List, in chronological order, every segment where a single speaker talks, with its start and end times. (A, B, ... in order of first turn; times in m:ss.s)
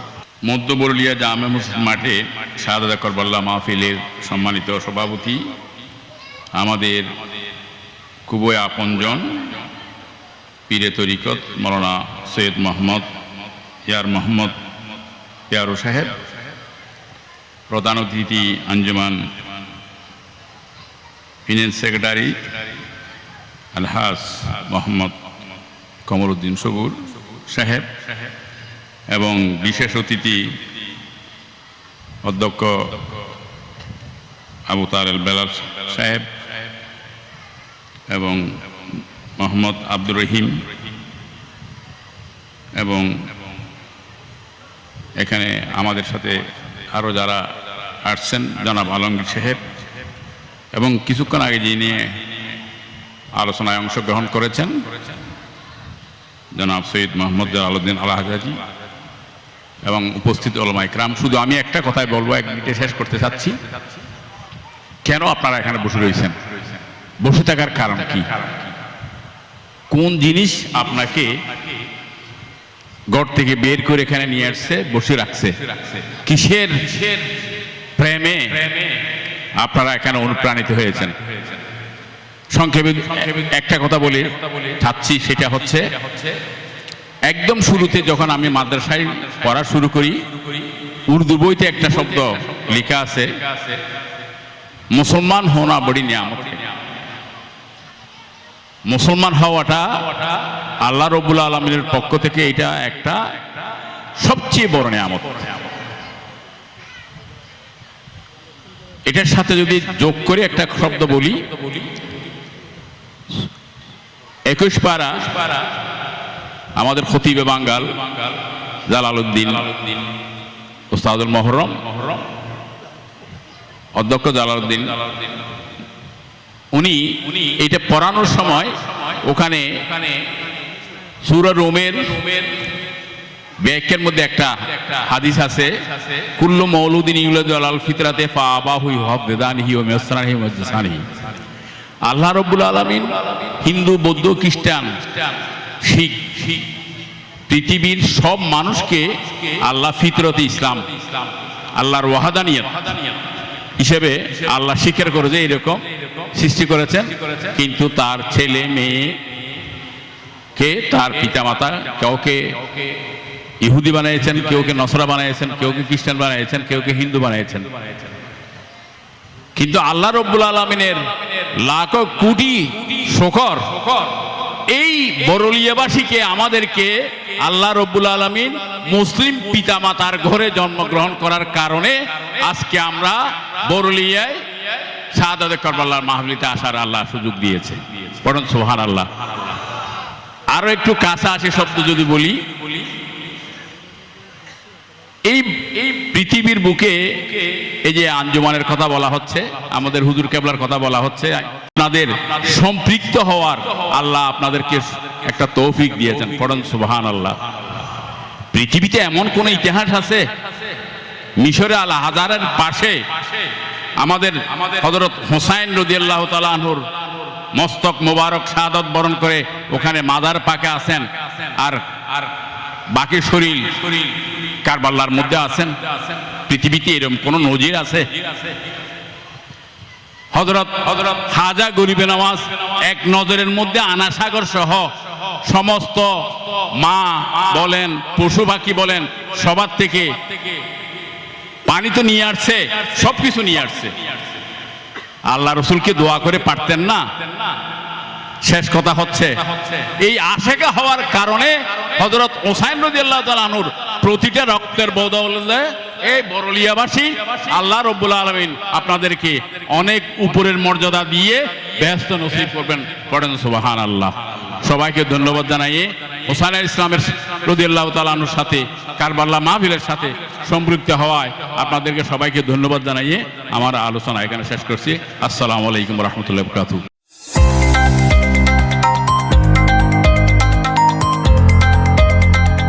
0:00.4-0:05.5 A
0:06.5-0:07.2 A
0:08.3-0:09.6 A
0:10.7-0:13.2 A
0:13.8-0:14.6 A
0:15.5-0:16.2 A
0:17.7-0:19.3 A
0:21.5-0:22.6 A
0:23.7-0:25.2 A
0:26.0-0:28.2 A
0:29.1-0:30.6 A
0:32.2-0:33.1 A
0:34.7-0:36.3 A
0:38.1-0:40.7 A
0:42.7-0:43.3 A
0:45.2-0:49.7 A
0:50.7-0:52.3 A
0:53.3-0:55.0 A
0:56.5-0:58.6 A
0:59.8-1:03.6 A
1:05.0-1:08.7 A
1:09.9-1:11.4 A
1:13.1-1:17.4 A
1:18.0-1:18.9 A
1:19.5-1:21.6 A
1:22.5-1:26.3 A
1:27.2-1:33.7 A
1:34.9-1:36.7 A
1:38.9-1:45.7 A
1:49.0-1:52.0 A
1:54.4-1:55.6 A
1:56.8-2:00.0 A
2:00.9-2:02.2 A
2:03.9-2:05.3 A
2:06.7-2:10.2 A
2:11.2-2:12.6 A
2:13.6-2:21.3 A
2:22.0-2:26.7 A
2:27.5-2:39.4 A
2:40.5-2:42.8 A
2:43.6-2:48.1 A
2:49.6-3:09.6 A
3:10.5-3:12.9 A
3:15.2-3:27.8 A
3:28.5-3:30.8 A
3:31.4-3:48.5 A
3:50.3-4:00.6 A
4:01.6-4:04.2 A
4:05.2-4:07.3 A
4:08.4-4:36.8 A